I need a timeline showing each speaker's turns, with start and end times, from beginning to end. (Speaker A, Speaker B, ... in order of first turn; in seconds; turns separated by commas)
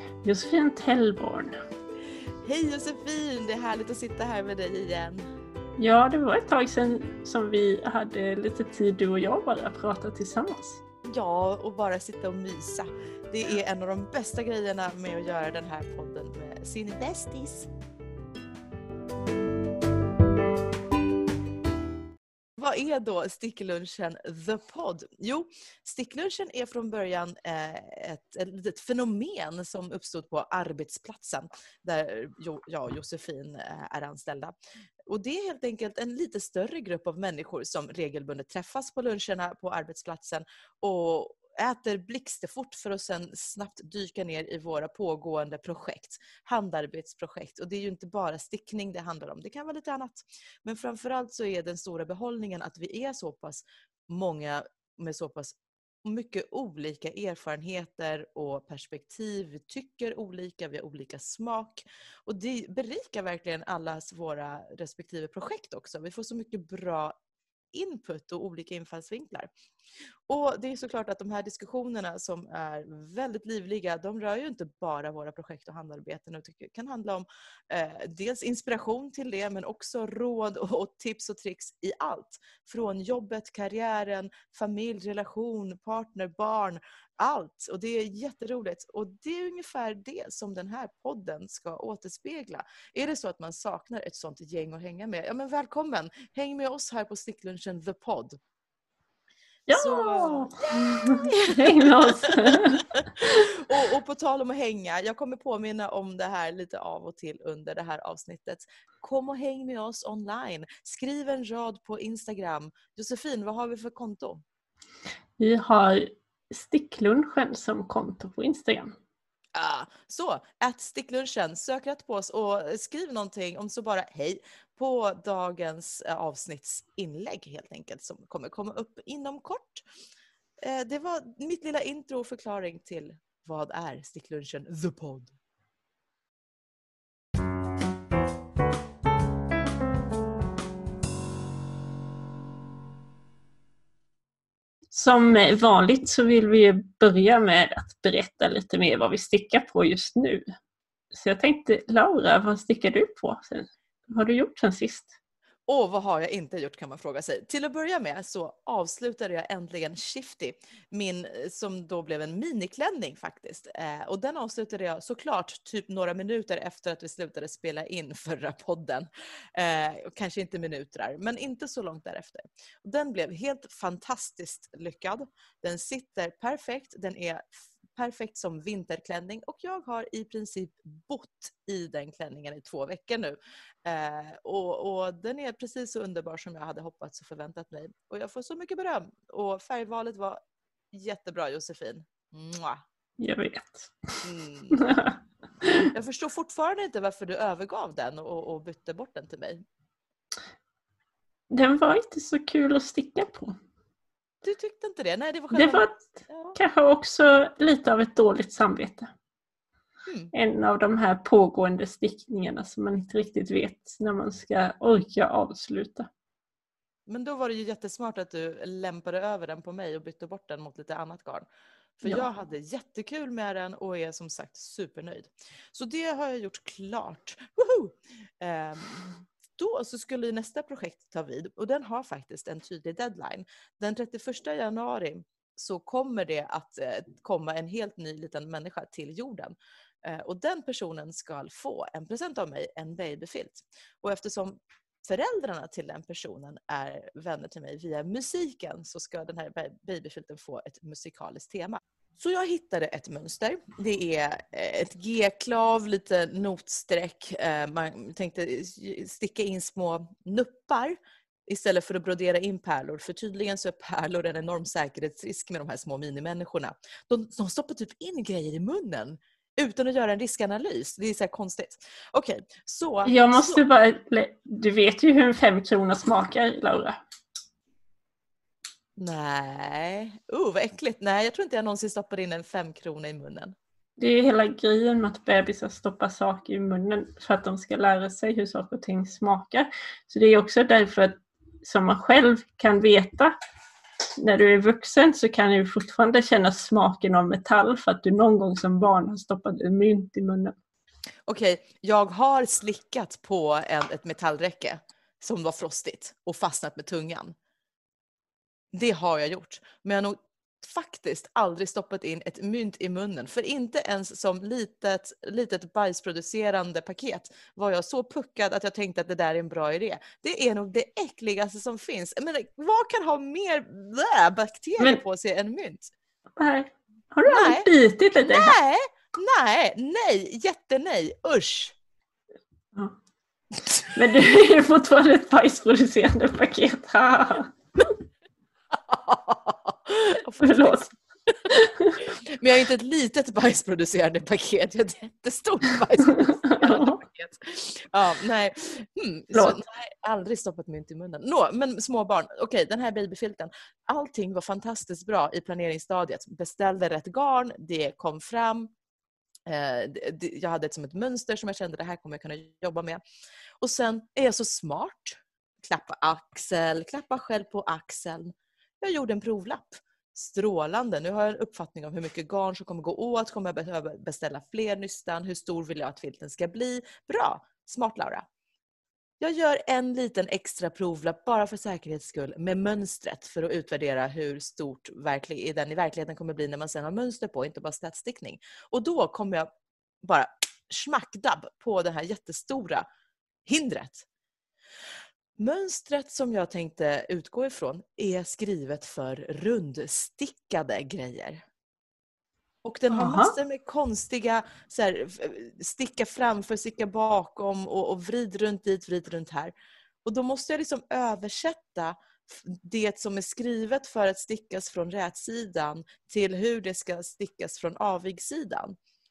Speaker A: 0.2-1.6, Speaker B: 2.4-5.2, Speaker A: 5.8-10.8, Speaker B: 11.0-17.7, Speaker B: 22.6-34.5, Speaker B: 35.0-67.1, Speaker B: 67.7-69.5, Speaker B: 70.3-98.4, Speaker A: 99.7-103.5, Speaker B: 99.7-114.4, Speaker A: 115.4-119.0, Speaker B: 119.5-129.8, Speaker B: 130.6-135.3, Speaker A: 144.9-150.4, Speaker A: 151.1-155.1, Speaker B: 155.7-190.4, Speaker B: 190.9-192.8, Speaker A: 193.2-195.9, Speaker B: 194.2-195.0, Speaker B: 195.8-199.6, Speaker A: 201.5-203.6, Speaker B: 204.4-206.6, Speaker A: 205.5-209.1, Speaker A: 210.3-216.1, Speaker B: 217.1-221.5, Speaker B: 222.0-273.6, Speaker A: 273.1-277.0, Speaker B: 279.0-283.6, Speaker A: 284.0-293.3, Speaker A: 294.2-300.5, Speaker B: 301.2-307.3, Speaker B: 308.7-325.9, Speaker A: 326.4-328.5, Speaker B: 327.2-327.7, Speaker B: 328.2-331.7, Speaker A: 333.9-337.5, Speaker B: 338.7-358.7, Speaker A: 340.4-340.9, Speaker A: 341.5-342.0, Speaker A: 346.1-347.0, Speaker A: 349.3-349.6, Speaker B: 359.4-363.0, Speaker B: 363.6-378.2, Speaker B: 379.2-389.5, Speaker B: 390.0-392.8, Speaker B: 393.4-394.0, Speaker B: 395.4-401.4, Speaker B: 402.6-409.5, Speaker A: 402.9-403.3, Speaker B: 410.0-418.8